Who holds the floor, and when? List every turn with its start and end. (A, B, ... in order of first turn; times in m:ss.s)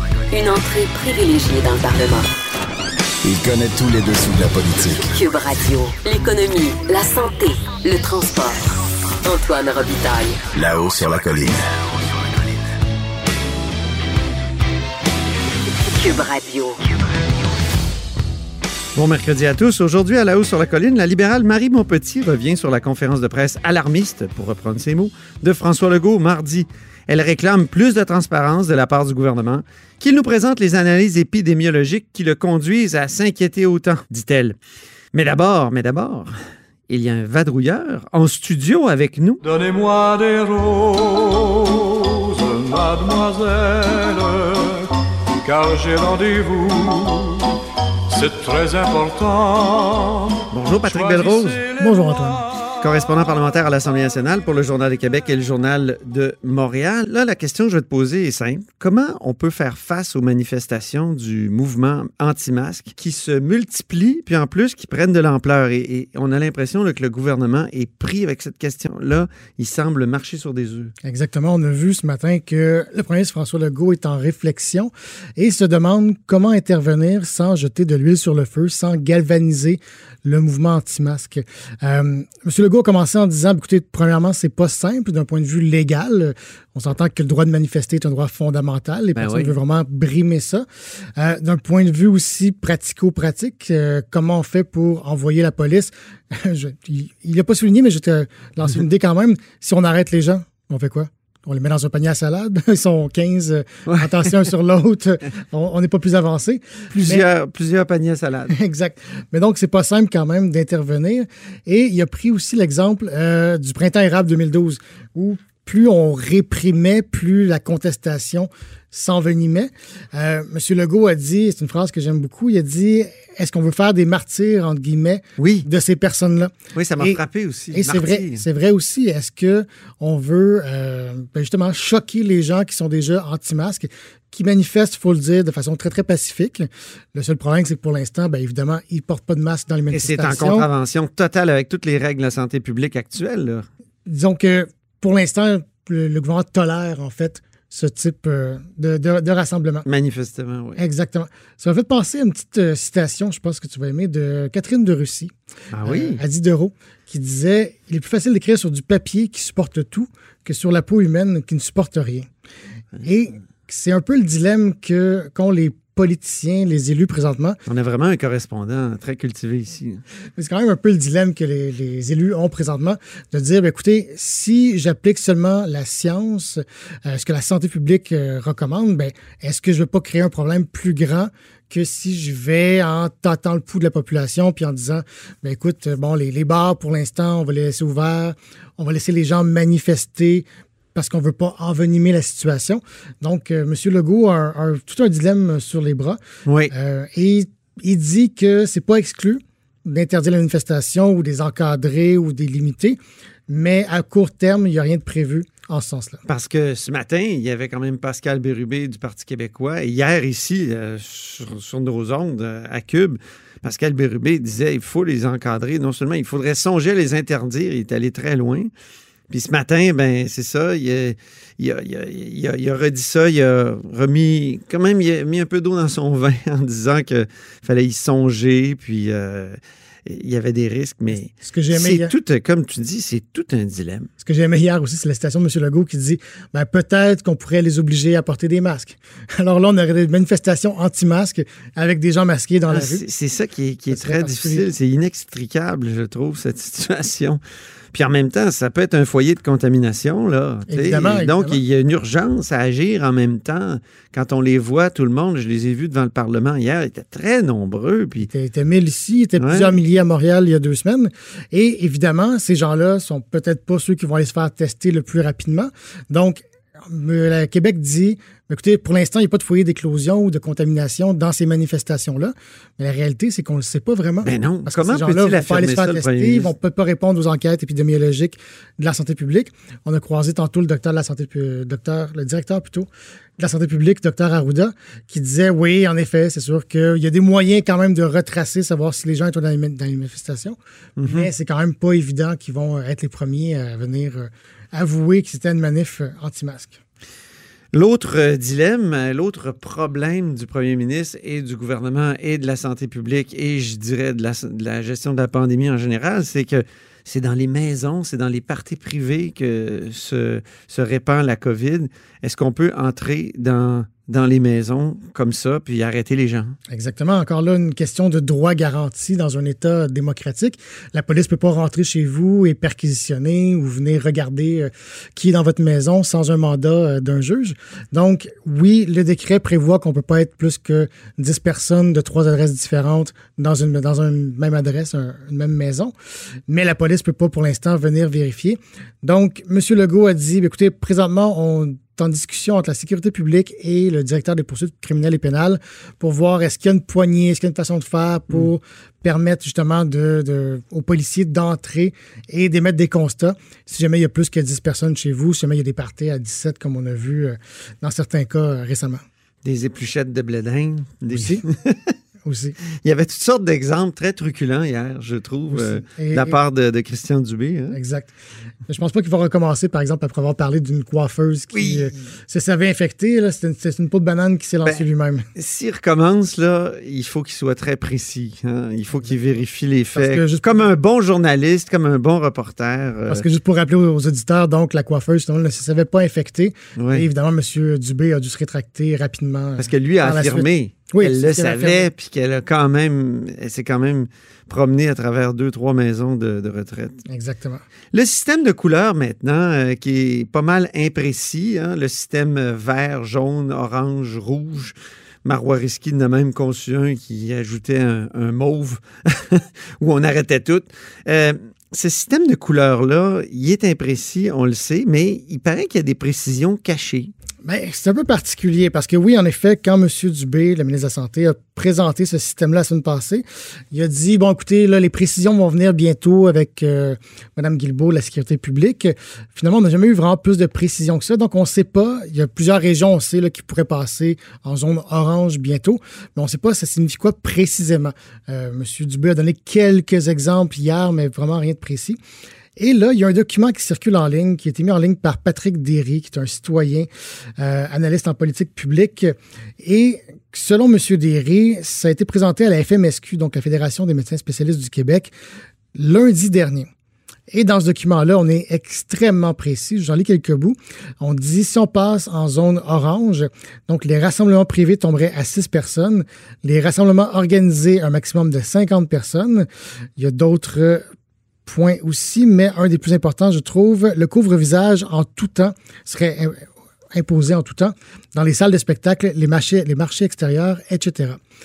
0:00.3-0:02.3 A
0:03.2-0:05.1 B
0:05.1-0:08.6 A
0:09.2-0:10.4 A
0:10.5-0:11.7 B
0:15.8-0:16.8 A
0:18.9-0:34.6 C
0:35.1-0:36.3 C
0:36.9-0:39.4 C
0:39.4-0:44.9 D
0:45.4-0:47.5 D
0:48.1-0:52.1 D
0:50.5-0:51.6 C
0:51.8-0:52.4 E
0:52.8-1:10.9 C
1:11.0-1:30.6 E
1:29.2-1:29.5 C
1:31.2-1:47.2 E
1:43.8-1:44.3 C
1:46.9-1:48.5 C
1:48.5-2:07.2 E
2:05.4-2:05.6 C
2:06.7-2:08.4 C
2:07.7-2:20.7 E
2:19.9-2:23.6 C
2:24.1-2:29.8 E
2:29.9-2:30.8 C
2:30.8-2:35.3 E
2:35.7-2:36.2 C
2:35.8-2:42.3 E
2:43.0-2:47.6 E
2:47.7-2:50.0 C
2:50.4-3:16.2 E
3:16.4-3:16.7 C
3:16.7-3:26.2 E
3:26.3-3:38.7 C
3:39.3-3:54.1 C
3:51.3-3:52.1 E
3:54.2-4:03.0 E
4:02.7-4:07.4 C
4:03.9-4:04.6 E
4:07.9-4:18.3 C
4:10.7-4:11.6 E
4:18.3-4:56.8 E
4:19.4-4:19.7 C
4:34.2-4:36.5 C
4:51.0-4:51.3 C
4:57.7-5:16.6 C
5:16.7-5:35.9 E
5:36.5-5:59.0 E
5:59.4-6:01.9 C
6:01.1-6:01.4 E
6:02.2-6:02.6 E
6:02.8-6:07.8 C
6:05.5-6:06.4 E
6:07.7-6:08.1 E
6:08.7-6:15.3 E
6:11.5-6:11.9 C
6:15.4-6:23.2 C
6:19.9-6:20.6 E
6:23.1-6:31.9 E
6:26.8-6:27.0 C
6:29.6-6:37.0 C
6:37.1-6:37.6 E
6:37.9-6:57.1 C
6:57.4-7:22.0 E
7:22.6-7:35.1 E
7:35.7-7:36.7 E
7:37.3-7:50.8 E
7:51.4-8:01.2 E